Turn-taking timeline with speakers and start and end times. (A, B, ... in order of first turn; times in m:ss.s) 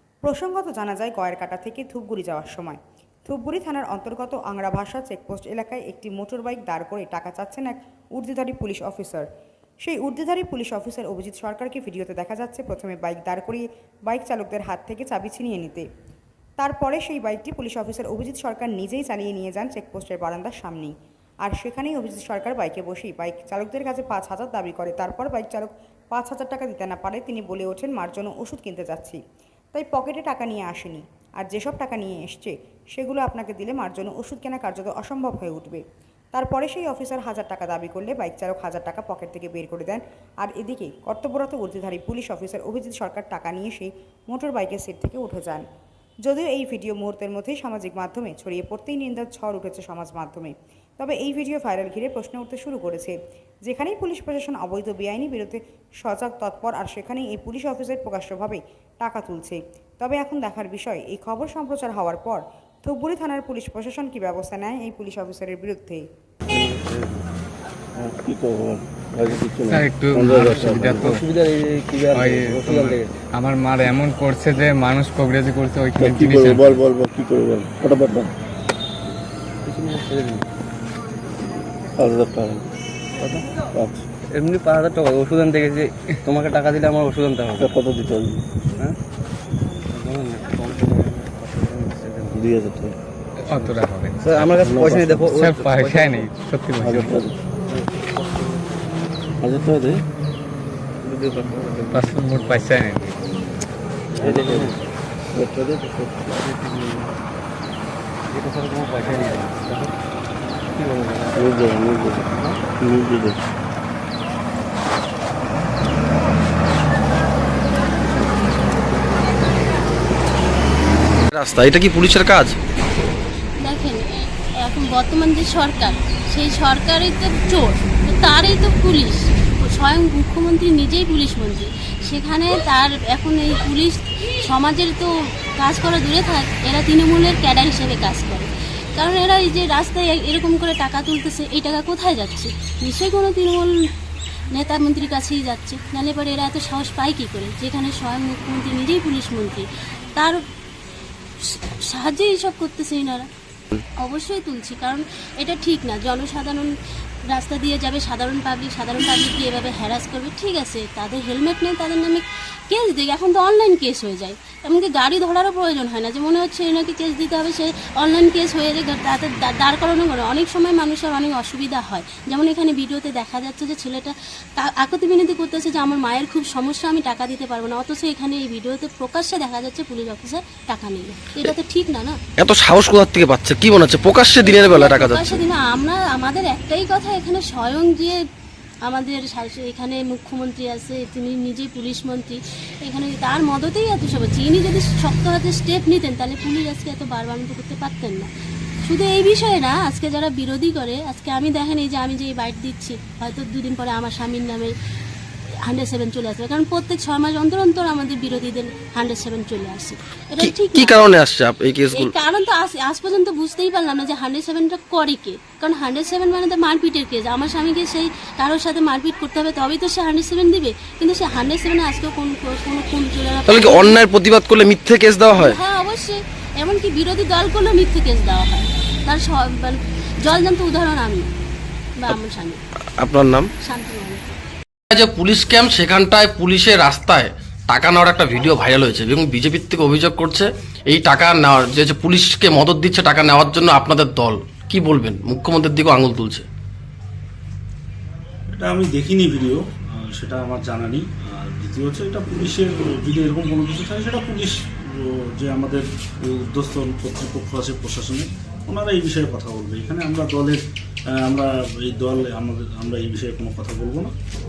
0:00.2-0:09.3 A
0:09.8-0:15.8 A
0:16.6-0:29.2 A
0:29.7-0:35.8 A
0:36.3-0:45.6 A
0:46.2-1:06.0 A
1:06.5-1:07.2 B
1:08.0-1:11.1 C
1:09.7-1:11.2 D
1:10.5-1:13.1 B
1:12.1-1:16.8 D
1:16.0-1:18.3 C
1:19.6-1:20.4 B
1:22.0-1:22.6 C
1:23.2-1:23.4 B
1:23.7-1:24.0 C
1:24.2-1:27.8 B
1:27.6-1:28.5 C
1:29.9-1:32.5 B
1:32.4-1:33.0 C
1:33.4-1:37.2 D
1:33.6-1:36.3 B
1:34.5-1:35.1 C
1:36.8-1:37.4 C
1:37.7-1:38.8 B
1:39.4-1:40.0 C
1:41.0-1:42.1 B
1:41.9-1:43.2 D
1:44.1-1:44.8 B
1:44.2-1:44.6 C
1:45.3-1:45.9 C
1:45.8-1:47.2 B
1:48.3-1:49.9 B
1:50.7-1:52.6 B
1:51.4-1:52.2 C
1:52.8-1:53.4 C
2:01.3-2:02.6 E
2:03.6-2:04.0 F
2:04.6-2:23.7 F
2:24.5-2:30.4 F
2:31.4-2:33.3 F
2:34.0-2:36.7 F
2:37.3-3:02.2 F
3:02.4-3:05.4 E
3:04.4-3:08.2 F
3:08.8-3:18.3 F
3:18.8-3:24.7 F
3:25.6-3:31.1 F
3:30.4-3:32.2 E
3:31.9-3:44.0 F
3:43.5-3:45.6 E
3:45.3-3:51.3 F
3:52.0-3:52.6 F
3:53.0-3:53.5 E
3:53.6-3:54.3 F
3:54.9-4:06.4 E
4:08.5-4:20.6 G
4:21.1-4:24.1 G